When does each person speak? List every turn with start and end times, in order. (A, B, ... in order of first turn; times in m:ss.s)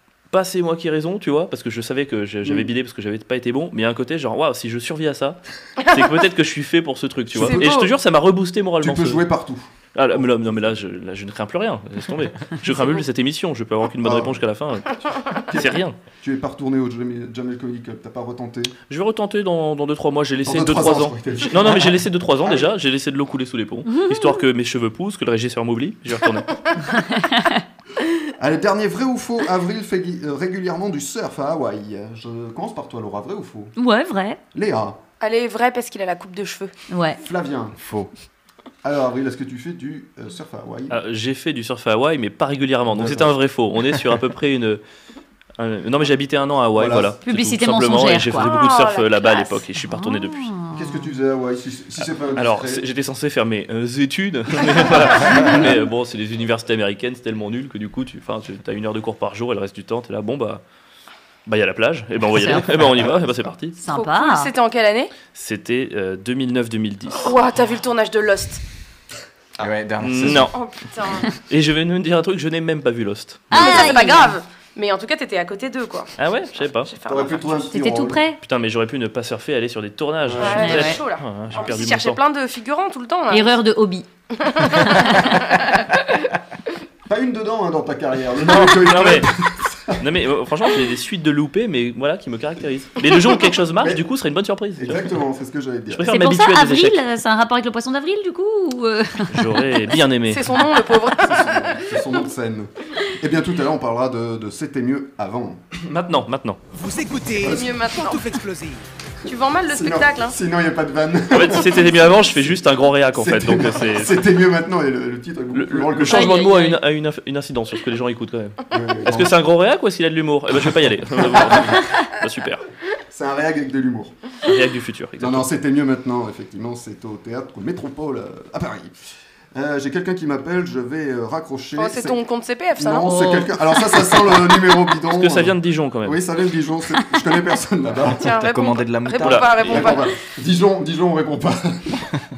0:00.3-0:09.2 A
0:02.4-0:02.7 B
0:05.8-0:06.1 C
0:07.3-0:07.8 B
0:07.4-0:07.9 C
0:08.8-0:09.6 B
0:10.0-0:16.0 A
0:14.0-0:14.4 B
0:15.5-0:18.7 B
0:18.9-0:26.6 A
0:20.4-0:22.7 B
0:23.9-0:24.4 D
0:26.9-0:27.6 D
0:28.4-0:33.7 B
0:33.8-0:34.4 D
0:34.5-0:35.0 B
0:35.2-0:36.7 C
0:36.9-0:37.2 D
0:37.2-0:37.8 B
0:37.8-0:38.1 E
0:38.8-0:41.0 B
0:40.9-0:44.8 A
0:42.9-0:43.4 B
0:45.6-0:50.5 A
0:46.8-0:47.2 B
0:47.2-0:48.5 D
0:48.4-0:49.6 C
0:49.8-0:51.1 D
0:50.7-0:52.8 B
0:52.4-1:00.6 A
1:01.5-1:03.8 A
1:02.3-1:02.7 D
1:03.8-1:04.5 D
1:03.8-1:05.1 C
1:05.3-1:07.4 A
1:07.2-1:08.6 C
1:09.6-1:10.6 E
1:10.0-1:10.5 A
1:10.5-1:11.3 C
1:11.4-1:13.8 A
1:13.5-1:14.3 D
1:13.5-1:16.1 C
1:16.2-1:16.9 A
1:16.8-1:17.7 C
1:17.1-1:18.2 B
1:17.7-1:18.4 D
1:18.4-1:22.2 A
1:20.2-1:20.8 B
1:20.4-1:23.6 C
1:20.5-1:21.0 D
1:23.3-1:24.1 D
1:24.4-1:25.8 C
1:24.7-1:25.4 D
1:27.1-1:30.0 B
1:28.4-1:29.3 A
1:30.0-1:35.1 A
1:33.8-1:34.0 B
1:34.8-1:36.1 B
1:35.9-1:37.0 A
1:36.1-1:39.5 D
1:39.3-1:40.6 A
1:40.3-1:41.9 C
1:41.2-1:45.7 B
1:45.9-1:46.6 A
1:46.7-1:48.8 F
1:47.4-1:47.7 B
1:47.4-1:48.4 C
1:49.2-1:50.4 C
1:49.7-1:52.0 B
1:51.3-1:54.2 A
1:53.1-1:56.4 B
1:55.5-2:02.6 A
1:56.2-1:56.8 C
1:56.2-1:56.6 D
1:58.7-1:59.4 B
2:01.3-2:01.8 B
2:03.1-2:04.2 B
2:04.4-2:05.5 A
2:05.2-2:09.0 B
2:09.5-2:12.2 B
2:11.8-2:13.5 C
2:12.8-2:18.3 B
2:15.1-2:16.2 A
2:18.1-2:20.2 C
2:18.2-2:19.7 E
2:19.2-2:19.9 A
2:19.6-2:22.0 B